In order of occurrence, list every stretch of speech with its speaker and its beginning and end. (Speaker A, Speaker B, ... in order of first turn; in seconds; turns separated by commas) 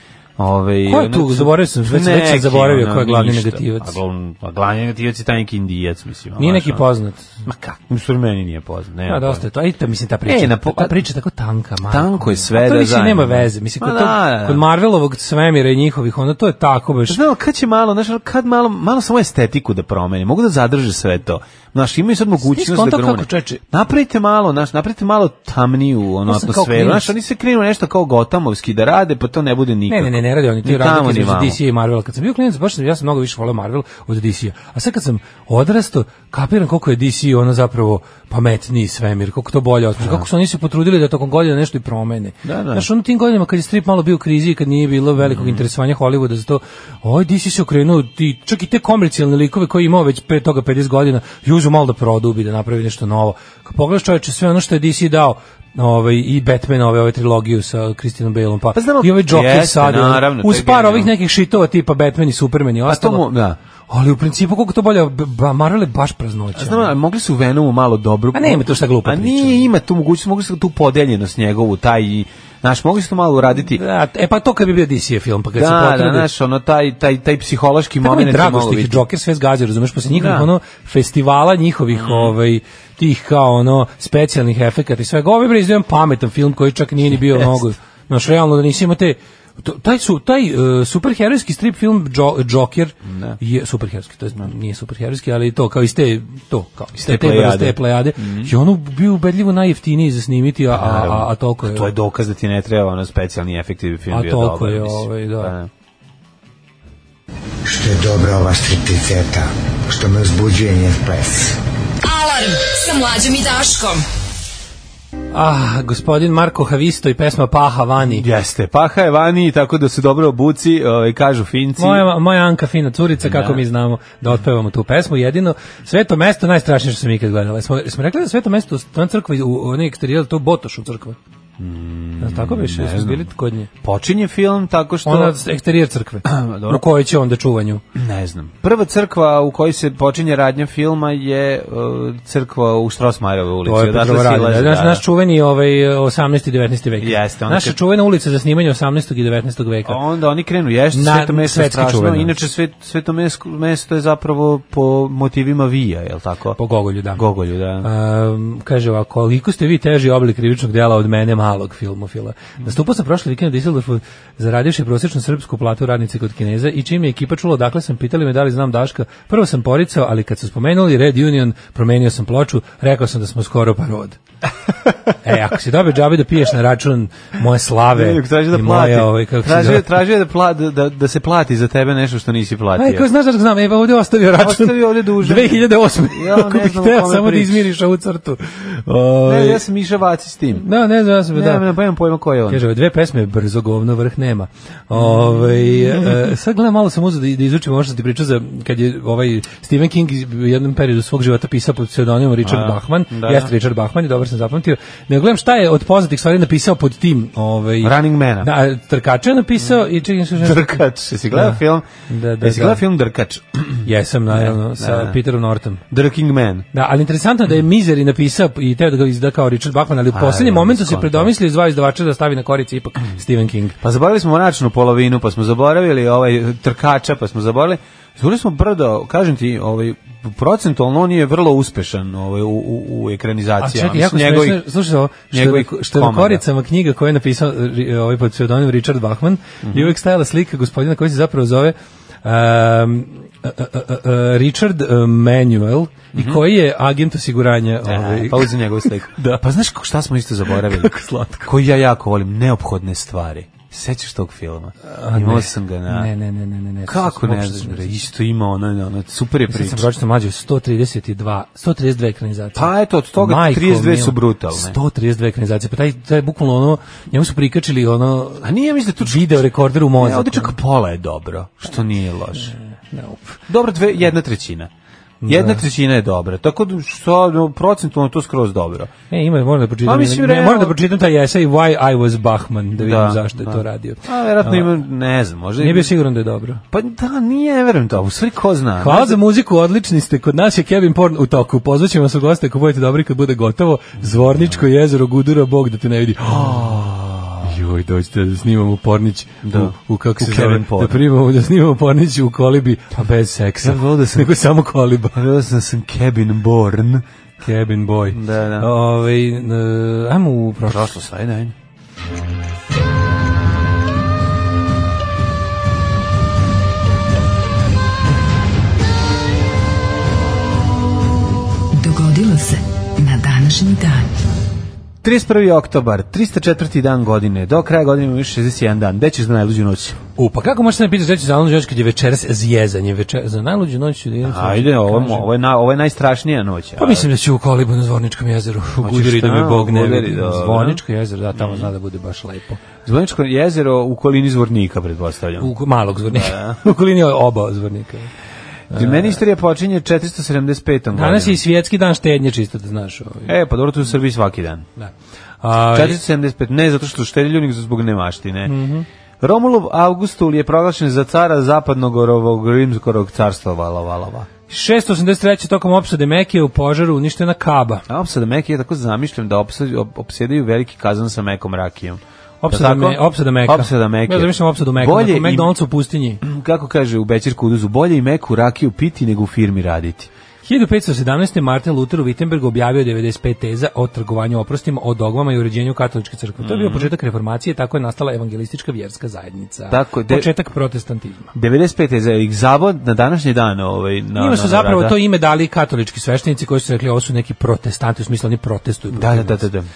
Speaker A: 0.4-6.8, Speaker B: 0.8-4.0, Speaker B: 6.4-7.8, Speaker A: 7.9-9.4, Speaker B: 9.1-17.2, Speaker A: 10.2-11.0, Speaker A: 11.9-14.6, Speaker A: 17.1-31.6, Speaker B: 22.4-23.6, Speaker B: 26.3-27.1, Speaker B: 29.9-63.3, Speaker A: 40.0-40.2, Speaker A: 42.4-42.9, Speaker A: 45.2-45.6, Speaker A: 58.7-61.1, Speaker A: 62.9-63.6, Speaker B: 63.9-66.9, Speaker A: 66.5-73.8, Speaker B: 68.3-69.7, Speaker B: 73.7-76.3, Speaker A: 75.5-79.0, Speaker B: 78.0-101.9, Speaker A: 80.1-80.5, Speaker A: 81.9-82.3, Speaker A: 93.0-93.4, Speaker A: 96.9-98.5, Speaker A: 100.7-105.7, Speaker B: 104.1-105.5, Speaker C: 107.6-111.6, Speaker D: 112.0-114.0, Speaker B: 115.3-118.2, Speaker A: 118.0-122.0, Speaker B: 121.8-131.2, Speaker A: 123.2-123.6, Speaker A: 131.6-133.3, Speaker B: 132.2-133.7, Speaker A: 133.8-135.4, Speaker B: 135.0-137.8, Speaker A: 136.2-136.8, Speaker A: 137.9-145.0, Speaker B: 143.6-150.0, Speaker A: 147.0-147.8, Speaker A: 149.8-156.6, Speaker B: 150.9-152.3, Speaker B: 156.6-157.2, Speaker A: 157.1-157.9, Speaker B: 157.8-174.2, Speaker B: 175.2-179.9, Speaker A: 177.9-183.1, Speaker B: 182.8-189.6, Speaker A: 184.4-187.7, Speaker A: 189.2-190.7, Speaker B: 190.6-191.6, Speaker A: 191.3-192.6, Speaker B: 192.5-212.8, Speaker A: 194.9-196.3, Speaker A: 202.4-203.5, Speaker A: 207.8-208.5, Speaker A: 210.3-211.9, Speaker A: 212.4-215.2, Speaker B: 213.8-215.8, Speaker A: 215.9-216.7, Speaker B: 216.7-223.8, Speaker A: 220.1-221.3, Speaker A: 223.8-234.7, Speaker B: 233.6-249.4, Speaker A: 235.3-236.4, Speaker A: 239.6-239.9, Speaker A: 246.1-246.4, Speaker A: 247.8-250.9, Speaker B: 250.5-251.5, Speaker A: 251.4-256.1, Speaker B: 254.8-258.0, Speaker A: 256.9-259.9, Speaker B: 259.5-268.4, Speaker A: 262.5-264.8, Speaker A: 268.4-272.5, Speaker B: 269.0-270.5, Speaker B: 272.4-273.4, Speaker A: 273.5-274.7, Speaker B: 275.2-275.6, Speaker A: 275.2-278.9, Speaker B: 279.1-284.7, Speaker A: 279.8-280.8, Speaker A: 282.8-285.9, Speaker B: 285.6-286.6, Speaker A: 286.7-289.2, Speaker B: 288.8-296.6, Speaker A: 294.2-294.6, Speaker A: 296.2-297.6, Speaker B: 297.4-305.2, Speaker A: 299.4-301.0, Speaker A: 303.6-304.4, Speaker A: 305.1-307.0, Speaker B: 307.4-310.9, Speaker A: 308.1-308.7, Speaker A: 310.6-311.5, Speaker D: 321.8-324.1, Speaker A: 325.0-330.0, Speaker B: 330.2-335.3, Speaker A: 334.2-337.1, Speaker B: 336.8-342.6, Speaker A: 338.8-340.8, Speaker A: 341.3-341.7, Speaker A: 342.8-345.5, Speaker B: 345.4-348.1, Speaker A: 346.1-346.6, Speaker B: 348.7-349.2, Speaker A: 348.7-351.4, Speaker B: 350.9-353.3, Speaker A: 353.2-354.7, Speaker B: 354.8-356.0, Speaker A: 355.7-358.5, Speaker B: 358.4-358.9, Speaker A: 359.2-364.3, Speaker B: 364.5-367.8, Speaker A: 367.9-375.5, Speaker B: 372.4-376.2, Speaker A: 376.2-380.1, Speaker B: 380.4-391.3, Speaker A: 386.4-386.9, Speaker A: 389.7-390.3, Speaker A: 391.3-395.0, Speaker B: 394.1-399.4, Speaker A: 398.9-399.7